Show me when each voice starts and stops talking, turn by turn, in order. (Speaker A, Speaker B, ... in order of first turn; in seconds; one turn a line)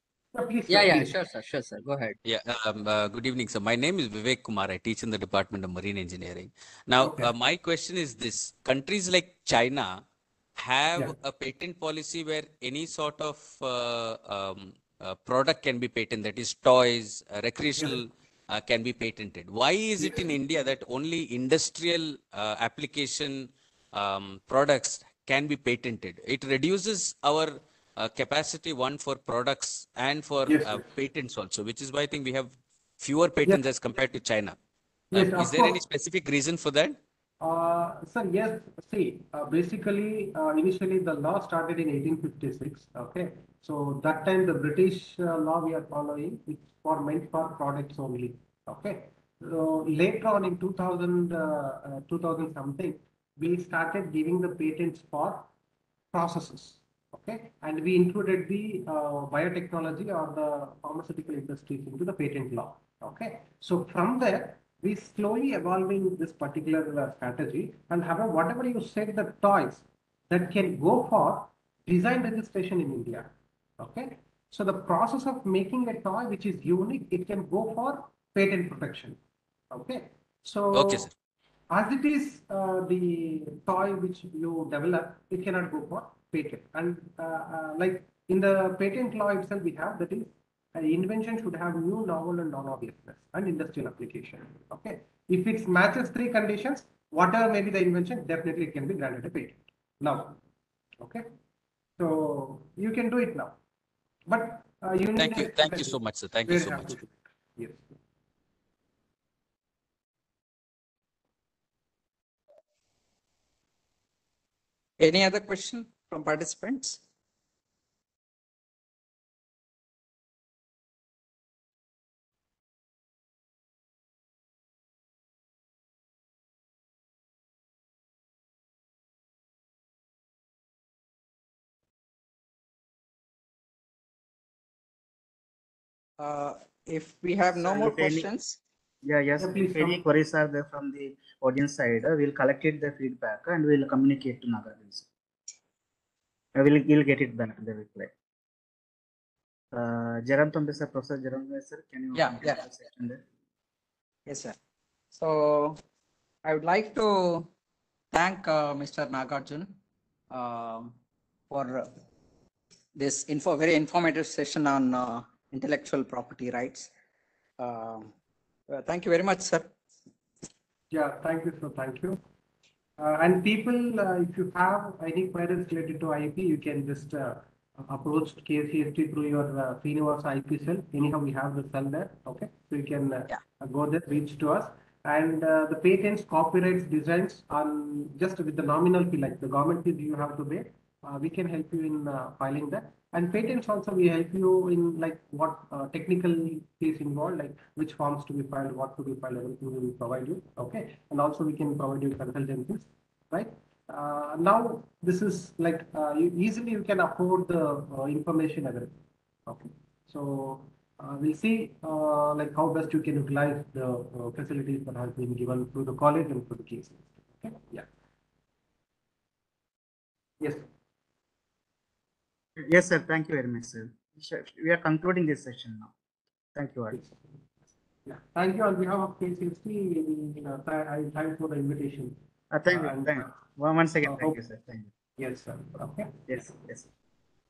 Speaker A: 0.3-1.2
Speaker B: 0.7-2.2
Speaker C: 2.2-10.0
Speaker A: 7.0-7.3
Speaker C: 10.6-34.6
Speaker A: 30.5-30.8
Speaker C: 35.1-37.0
Speaker A: 35.1-35.8
Speaker A: 37.4-55.5
Speaker A: 56.1-79.2
Speaker A: 79.7-81.0
Speaker C: 80.7-81.1
Speaker A: 81.7-100.4
Speaker A: 101.0-101.3
Speaker A: 102.0-103.5
Speaker A: 104.3-107.9
Speaker C: 105.2-107.1
Speaker B: 115.0-117.0
Speaker B: 136.2-138.6
Speaker D: 137.5-138.3
Speaker D: 139.0-145.1
Speaker A: 139.4-140.0
Speaker D: 146.5-148.1
Speaker D: 149.7-153.2
Speaker B: 152.1-152.6
Speaker B: 154.3-154.5
Speaker B: 155.1-155.8
Speaker B: 156.4-157.5
Speaker B: 158.1-159.7
Speaker B: 160.3-160.9
Speaker B: 161.5-161.9
Speaker B: 162.9-166.9
Speaker B: 167.6-168.1
Speaker B: 168.7-169.7
Speaker A: 170.9-172.2
Speaker A: 173.0-217.9
Speaker A: 220.4-220.7
Speaker D: 222.6-225.9
Speaker D: 226.5-227.0
Speaker A: 228.1-232.2
Speaker D: 232.5-234.9
Speaker A: 232.7-233.3
Speaker A: 234.1-234.3
Speaker A: 235.2-236.4
Speaker D: 236.3-236.9